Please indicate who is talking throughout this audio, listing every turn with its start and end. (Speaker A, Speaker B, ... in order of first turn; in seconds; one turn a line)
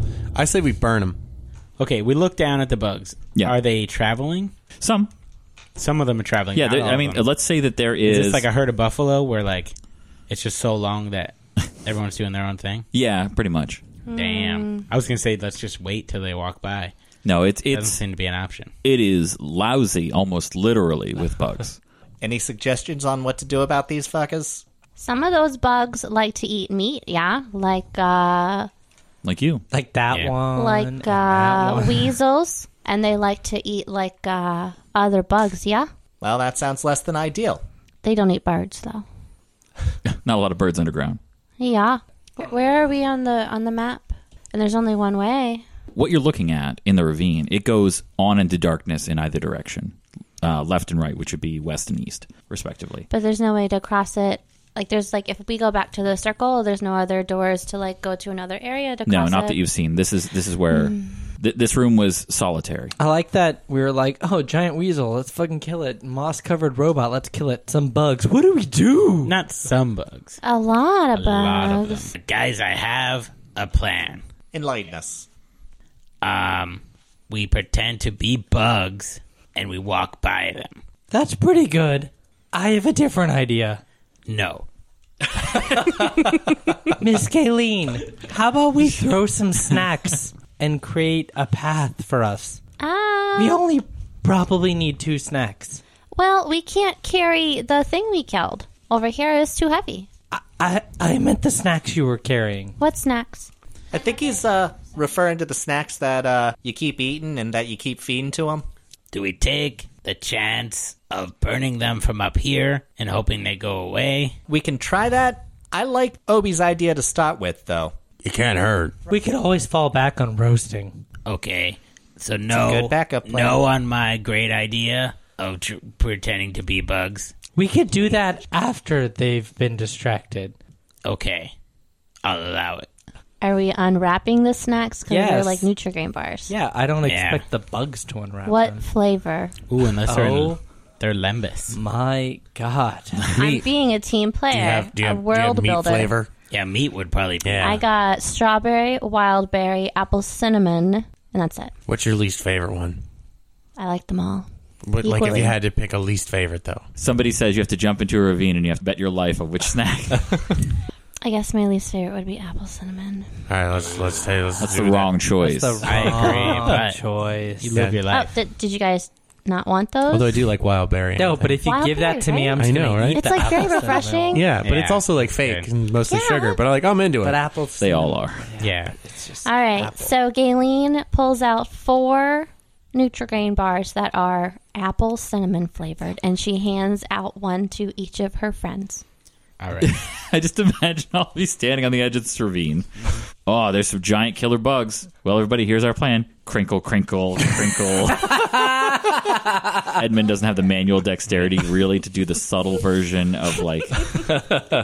Speaker A: 0.3-1.2
Speaker B: 1.8-4.5
Speaker C: 4.8-5.1
Speaker B: 5.8-7.2
Speaker C: 6.5-8.5
Speaker B: 8.0-9.8
Speaker B: 10.3-12.9
Speaker C: 12.9-13.8
Speaker D: 14.1-14.9
Speaker B: 14.1-16.9
Speaker C: 17.2-18.0
Speaker B: 17.7-18.7
Speaker C: 18.8-21.8
Speaker E: 22.2-24.6
Speaker D: 25.0-28.7
Speaker C: 29.2-29.6
Speaker F: 29.7-32.1
Speaker B: 30.1-30.4
Speaker D: 30.5-35.9
Speaker E: 36.2-37.6
Speaker D: 38.0-39.0
Speaker C: 40.1-41.2
Speaker D: 41.6-45.6
Speaker C: 45.9-53.1
Speaker D: 53.1-59.6
Speaker C: 59.1-62.9
Speaker D: 60.7-61.2
Speaker F: 63.0-69.3
Speaker B: 69.2-70.4
Speaker D: 70.4-72.1
Speaker B: 71.1-74.2
Speaker E: 74.5-75.2
Speaker B: 76.2-80.8
Speaker F: 81.1-83.8
Speaker B: 84.3-84.7
Speaker B: 85.5-86.1
Speaker F: 87.0-92.6
Speaker D: 92.8-93.6
Speaker F: 93.3-95.8
Speaker D: 96.1-100.1
Speaker F: 100.3-102.8
Speaker D: 102.8-103.5
Speaker E: 103.9-108.7
Speaker B: 109.1-114.4
Speaker E: 114.5-117.9
Speaker A: 118.2-119.0
Speaker F: 119.1-121.0
Speaker B: 121.2-127.3
Speaker E: 122.5-123.7
Speaker F: 127.6-130.6
Speaker B: 131.1-131.5
Speaker B: 132.2-132.9
Speaker D: 133.4-136.5
Speaker F: 135.1-135.7
Speaker F: 136.5-138.8
Speaker B: 137.0-137.4
Speaker D: 138.4-139.5
Speaker B: 139.7-141.8
Speaker F: 140.1-140.6
Speaker F: 141.7-143.2
Speaker A: 143.3-143.7
Speaker D: 143.3-146.2
Speaker A: 144.5-146.3
Speaker B: 146.5-147.8
Speaker A: 147.4-147.8
Speaker D: 147.6-151.7
Speaker A: 151.9-153.0
Speaker D: 153.8-154.4
Speaker A: 154.8-156.8
Speaker D: 155.0-155.6
Speaker C: 156.9-160.7
Speaker D: 161.2-163.4
Speaker A: 163.5-165.1
Speaker C: 164.6-166.3
Speaker F: 165.4-167.9
Speaker B: 165.8-167.1
Speaker B: 167.6-168.3
Speaker A: 167.7-168.0
Speaker D: 168.1-170.5
Speaker A: 170.1-171.6
Speaker F: 171.2-174.4
Speaker D: 171.6-174.5
Speaker A: 172.6-173.6
Speaker A: 174.3-177.4
Speaker B: 174.6-175.7
Speaker D: 176.1-176.6
Speaker F: 177.2-180.1
Speaker C: 177.8-178.4
Speaker B: 178.6-178.9
Speaker D: 179.4-189.0
Speaker B: 189.6-189.9
Speaker C: 189.8-192.9
Speaker C: 193.4-199.1
Speaker C: 199.9-204.4